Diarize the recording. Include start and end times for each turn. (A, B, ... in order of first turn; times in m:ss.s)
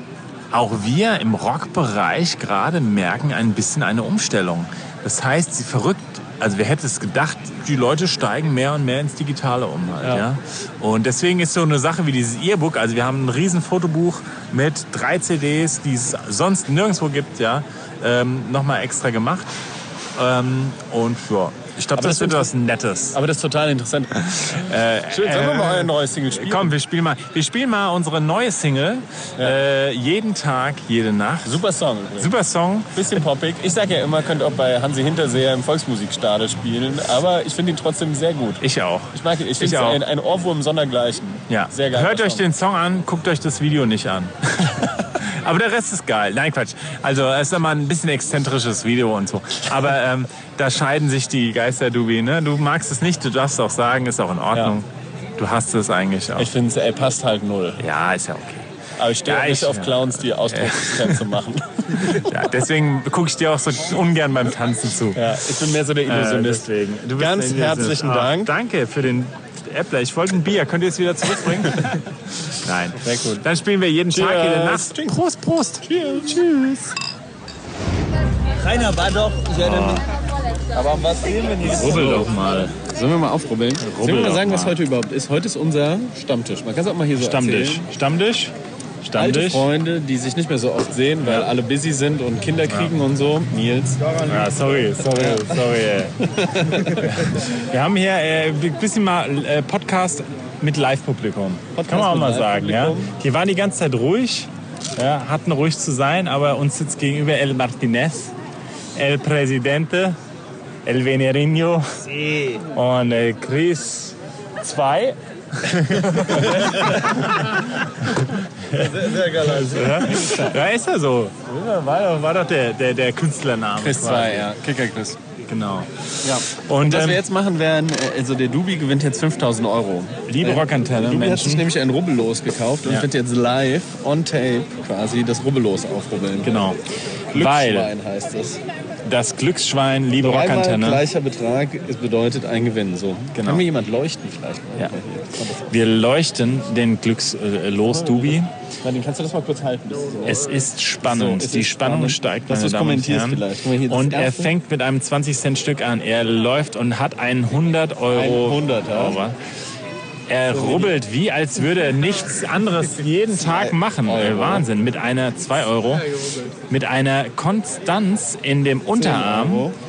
0:00.5-0:19.5 A
0:20.2-0:23.2 A
0:21.9-0:22.5 B
0:23.1-0:26.8 B
0:24.4-0:31.6 A
0:31.4-0:32.4 B
0:32.2-0:33.0 A
0:32.9-0:42.4 B
0:38.6-0:40.0 A
0:41.5-0:54.8 A
0:54.5-0:54.8 B
0:55.4-0:56.5 A
0:56.4-0:57.8 B
0:57.8-0:58.6 A
0:59.0-1:02.4 B
0:59.2-1:01.2 A
1:02.0-1:05.3 A
1:05.1-1:08.6 B
1:06.0-1:16.9 A
1:13.0-1:13.4 B
1:14.1-1:15.2 B
1:15.8-1:16.4 B
1:18.6-1:20.0 C
1:19.6-1:20.0 A
1:20.7-1:22.4 C
1:21.6-1:22.7 A
1:21.7-1:27.9 B
1:23.8-1:24.8 A
1:27.2-1:29.6 A
1:29.1-1:34.0 B
1:31.2-1:31.5 A
1:32.7-1:32.9 A
1:34.3-1:36.1 A
1:35.0-1:35.6 B
1:36.2-1:37.1 B
1:36.9-1:48.3 A
1:41.7-1:43.1 B
1:48.9-1:50.2 A
1:50.8-1:51.9 A
1:52.2-1:52.6 C
1:52.7-2:04.5 A
1:56.3-1:57.2 B
1:58.8-1:59.9 C
1:59.0-2:00.6 B
2:03.7-2:05.2 B
2:05.5-2:05.9 A
2:06.2-2:16.6 B
2:06.5-2:07.2 A
2:10.3-2:11.6 A
2:16.4-2:16.8 A
2:17.3-2:17.9 A
2:17.3-2:18.6 B
2:19.0-2:21.0 A
2:20.2-2:25.7 B
2:23.3-2:23.6 A
2:25.7-2:28.5 A
2:27.8-2:34.6 B
2:30.2-2:39.4 A
2:38.1-2:39.2 B
2:40.3-2:46.1 A
2:40.5-2:41.0 B
2:43.3-2:44.7 B
2:46.7-2:49.7 A
2:48.9-2:49.8 B